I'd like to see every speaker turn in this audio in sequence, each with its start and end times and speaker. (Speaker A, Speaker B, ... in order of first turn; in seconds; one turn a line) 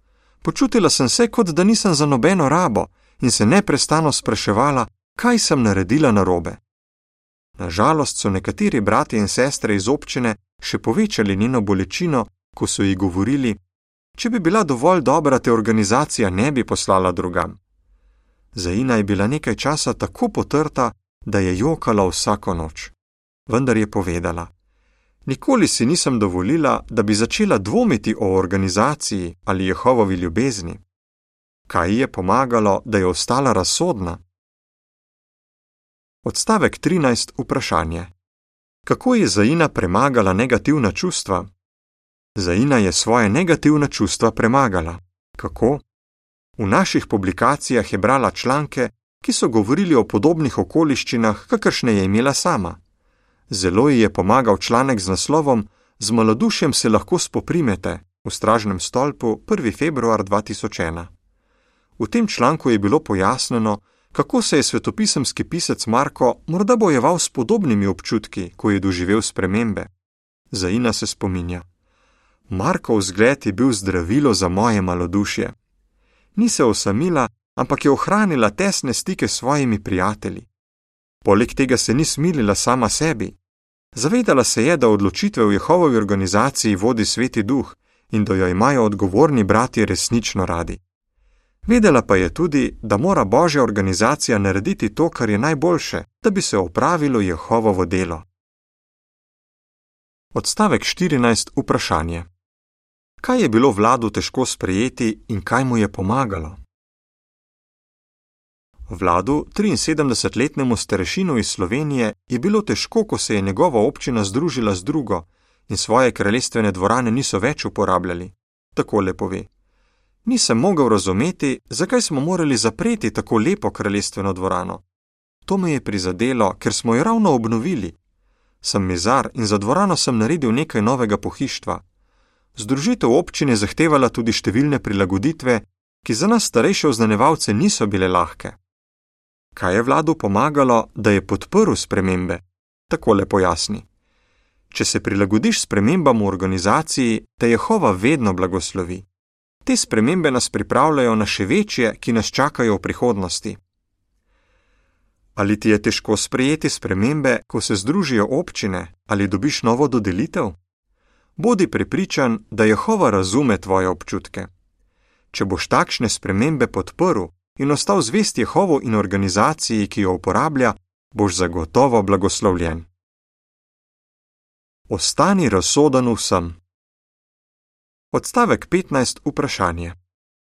Speaker A: 0.4-6.6
Speaker A: 7.6-13.6
Speaker A: 14.2-17.6
Speaker A: 18.6-22.9
Speaker A: 23.5-24.5
Speaker A: 25.2-30.8
Speaker A: 31.7-34.2
Speaker A: 36.2-38.1
Speaker A: 38.9-41.5
Speaker A: 42.4-45.8
Speaker A: 46.6-52.8
Speaker A: 53.5-61.1
Speaker A: 62.0-69.9
Speaker A: 70.5-71.6
Speaker A: 72.5-75.5
Speaker A: 76.4-80.5
Speaker A: 81.2-83.4
Speaker A: 83.9-90.8
Speaker A: 91.7-98.2
Speaker A: 100.3-102.3
Speaker A: 103.2-106.6
Speaker A: 108.9-119.5
Speaker A: 120.2-124.8
Speaker A: 125.5-128.0
Speaker A: 128.6-131.8
Speaker A: 132.6-138.6
Speaker A: 139.6-143.9
Speaker A: 144.7-149.1
Speaker A: 149.6-153.6
Speaker A: 155.4-160.6
Speaker A: 161.4-164.5
Speaker A: 165.3-172.9
Speaker A: 174.9-176.6
Speaker A: 178.1-180.0